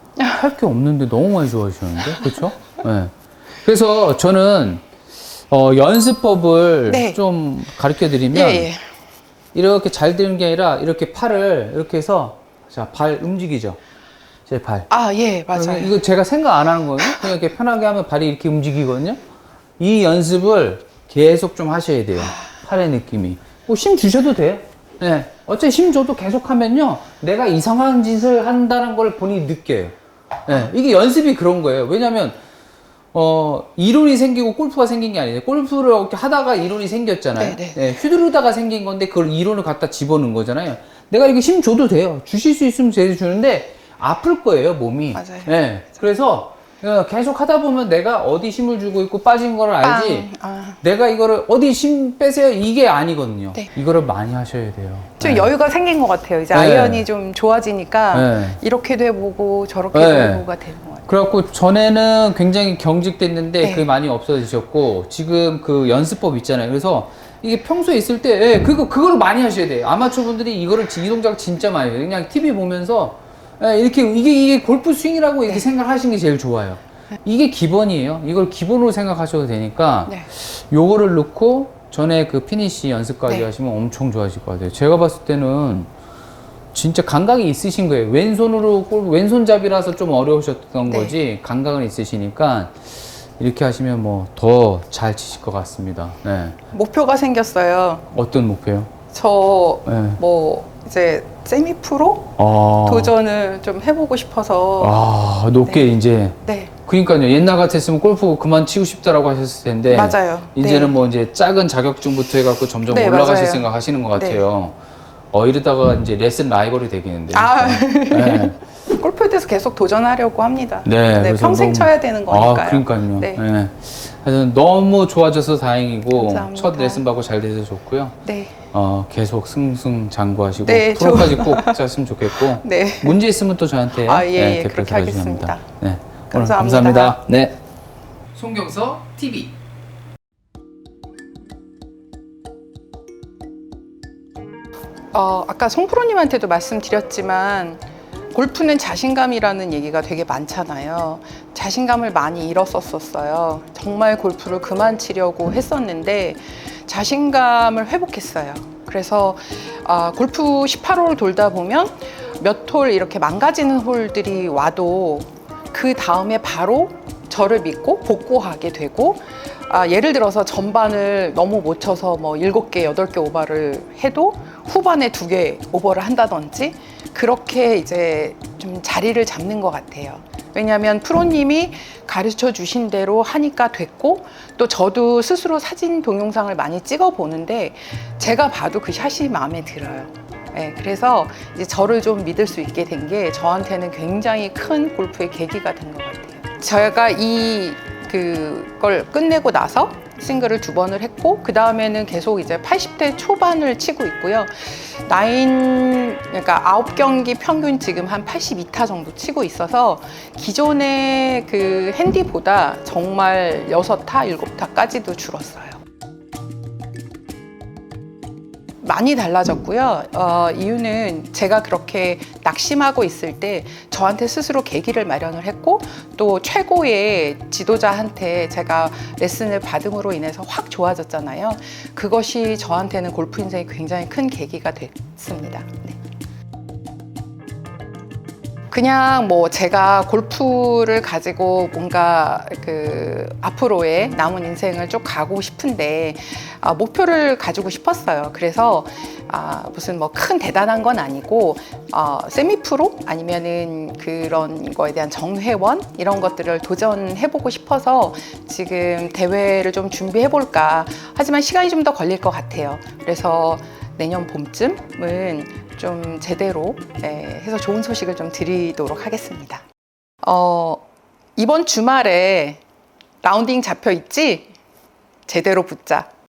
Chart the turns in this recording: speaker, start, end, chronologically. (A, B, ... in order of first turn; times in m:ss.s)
0:00.3-0:04.8 A
0:05.5-0:08.7 A
0:06.9-0:07.2 B
0:08.3-0:08.8 B
0:09.5-0:13.8 A
0:14.5-0:14.9 A
0:14.9-0:16.0 B
0:15.5-0:19.2 A
0:19.8-0:32.4 A
0:33.1-0:50.3 A
0:37.4-0:37.8 B
0:45.1-0:45.5 B
0:49.8-0:50.8 B
0:50.8-0:55.5 A
0:55.2-1:01.1 B
0:56.5-0:57.0 A
0:58.1-0:58.6 A
0:59.9-1:00.4 A
1:01.1-1:25.9 A
1:03.6-1:03.9 B
1:26.7-1:36.6 A
1:30.9-1:31.2 B
1:36.7-1:38.0 B
1:38.1-1:38.9 A
1:39.1-1:42.3 B
1:39.8-1:40.2 A
1:42.4-1:43.1 A
1:42.8-1:45.0 B
1:44.8-1:54.8 A
1:46.4-1:46.7 B
1:49.9-1:50.9 B
1:52.8-1:54.4 B
1:55.3-1:58.6 A
1:57.3-2:03.4 B
2:00.8-2:08.2 A
2:06.1-2:07.0 B
2:08.2-2:08.6 B
2:08.7-2:17.6 A
2:10.6-2:11.8 B
2:12.4-2:13.2 B
2:14.0-2:15.6 B
2:16.3-2:17.2 B
2:18.3-2:19.5 A
2:25.1-3:35.8 B
3:38.8-3:56.0 B
3:58.7-4:29.6 B
4:30.2-4:30.8 B
4:31.4-4:32.6 B
4:33.2-4:34.5 B
4:35.3-4:36.1 B